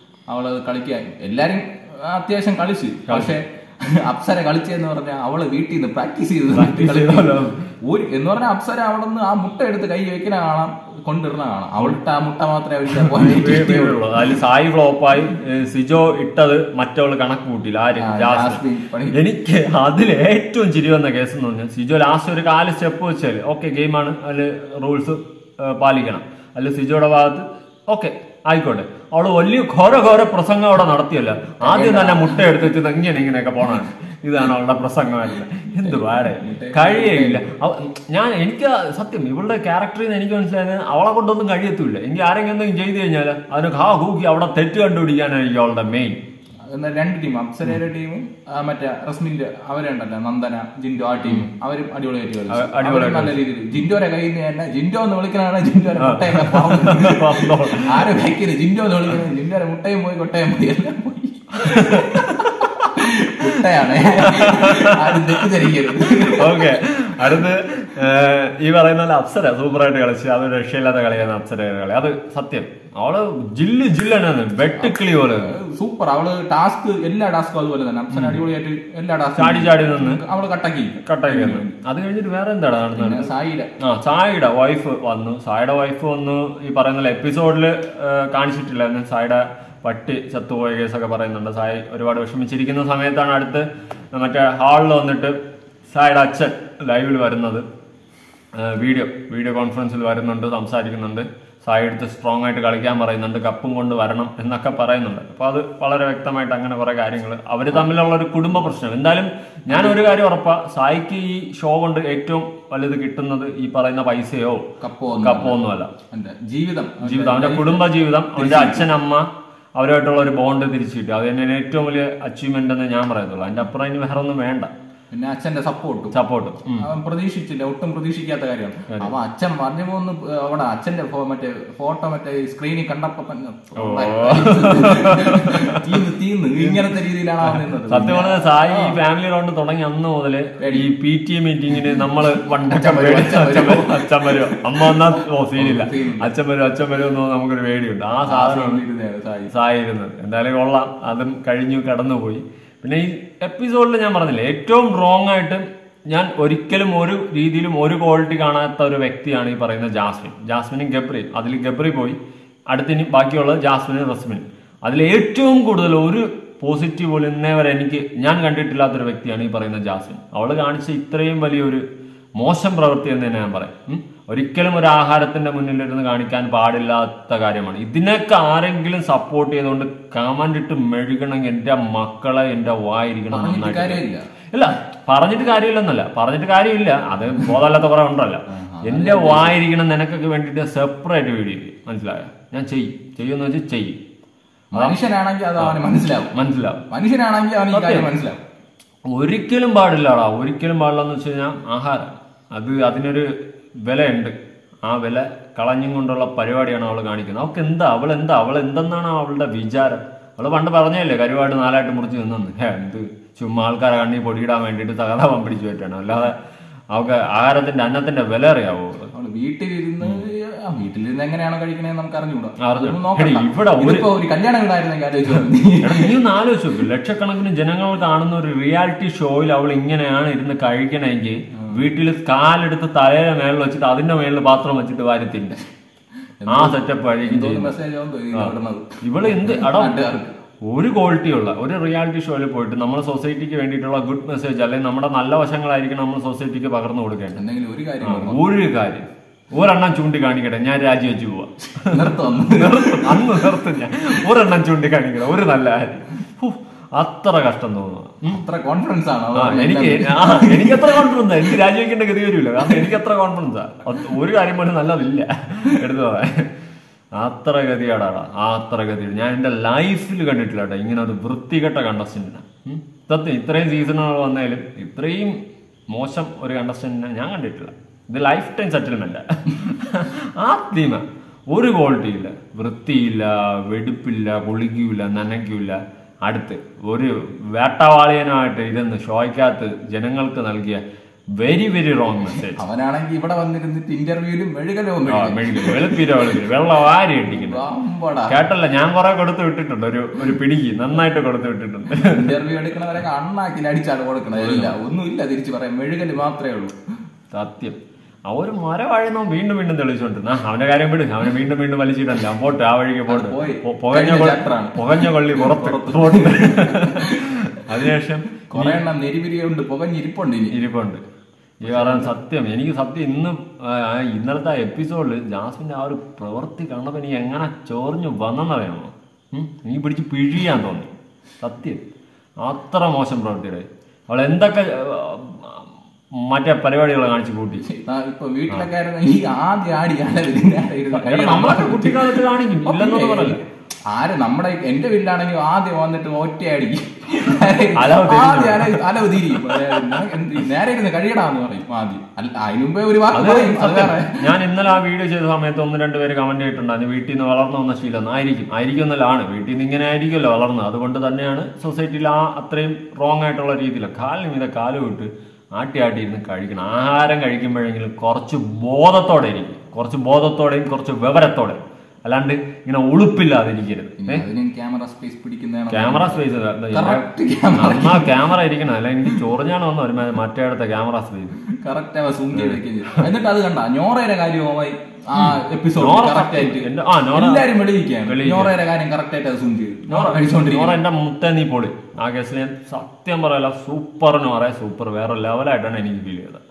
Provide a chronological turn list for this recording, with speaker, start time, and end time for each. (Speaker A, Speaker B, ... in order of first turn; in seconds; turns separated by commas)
Speaker A: 0.3-14.0, Speaker B: 3.1-3.3, Speaker B: 6.5-7.7, Speaker B: 13.1-46.2, Speaker A: 18.0-19.2, Speaker A: 31.6-32.7, Speaker A: 35.8-37.5, Speaker A: 46.7-67.4, Speaker B: 52.5-53.4, Speaker B: 56.0-58.1, Speaker B: 61.7-62.8, Speaker B: 63.4-75.6, Speaker A: 74.8-81.8, Speaker B: 78.1-78.4, Speaker B: 79.4-80.2, Speaker B: 81.0-83.3, Speaker A: 83.0-83.7, Speaker B: 83.8-95.4, Speaker B: 95.9-97.7, Speaker B: 98.5-114.7, Speaker A: 109.7-110.0, Speaker A: 114.8-115.6, Speaker B: 115.2-115.9, Speaker A: 116.1-118.9, Speaker B: 117.0-124.7, Speaker A: 125.1-126.2, Speaker B: 126.1-126.9, Speaker A: 126.8-139.0, Speaker B: 133.8-135.8, Speaker B: 136.6-136.8, Speaker B: 137.4-148.8, Speaker A: 140.6-140.9, Speaker A: 142.4-146.3, Speaker A: 148.3-149.5, Speaker B: 149.5-162.2, Speaker B: 162.7-171.8, Speaker B: 172.4-184.0, Speaker A: 183.3-184.3, Speaker B: 184.5-194.0, Speaker A: 188.5-189.6, Speaker A: 194.7-196.3, Speaker B: 196.3-196.8, Speaker A: 196.9-198.4, Speaker B: 197.7-198.1, Speaker B: 199.1-203.3, Speaker B: 203.8-204.3, Speaker B: 204.8-216.3, Speaker B: 216.9-219.1, Speaker A: 219.1-226.2, Speaker B: 222.6-224.1, Speaker B: 225.8-235.6, Speaker A: 236.4-240.3, Speaker B: 236.5-237.7, Speaker B: 239.0-240.0, Speaker B: 240.7-247.4, Speaker A: 247.3-248.5, Speaker B: 248.0-258.4, Speaker A: 251.8-253.5, Speaker A: 258.3-261.5, Speaker B: 259.4-266.5, Speaker B: 267.1-275.4, Speaker B: 275.9-290.8, Speaker B: 291.4-292.6, Speaker A: 292.3-296.5, Speaker B: 295.1-297.6, Speaker A: 297.3-298.4, Speaker B: 298.3-302.3, Speaker A: 301.9-306.8, Speaker B: 304.4-304.8, Speaker B: 307.3-307.8, Speaker B: 308.3-318.8, Speaker A: 313.1-317.9, Speaker A: 318.4-320.6, Speaker B: 320.5-321.0, Speaker B: 321.6-331.8, Speaker A: 321.6-322.1, Speaker B: 332.4-337.6, Speaker A: 337.6-354.2, Speaker B: 340.9-343.4, Speaker B: 347.8-348.8, Speaker B: 349.3-350.0, Speaker B: 353.1-374.2, Speaker A: 374.0-378.2, Speaker B: 375.7-381.4, Speaker A: 381.5-390.8, Speaker B: 385.1-387.5, Speaker B: 388.0-388.5, Speaker B: 389.9-396.4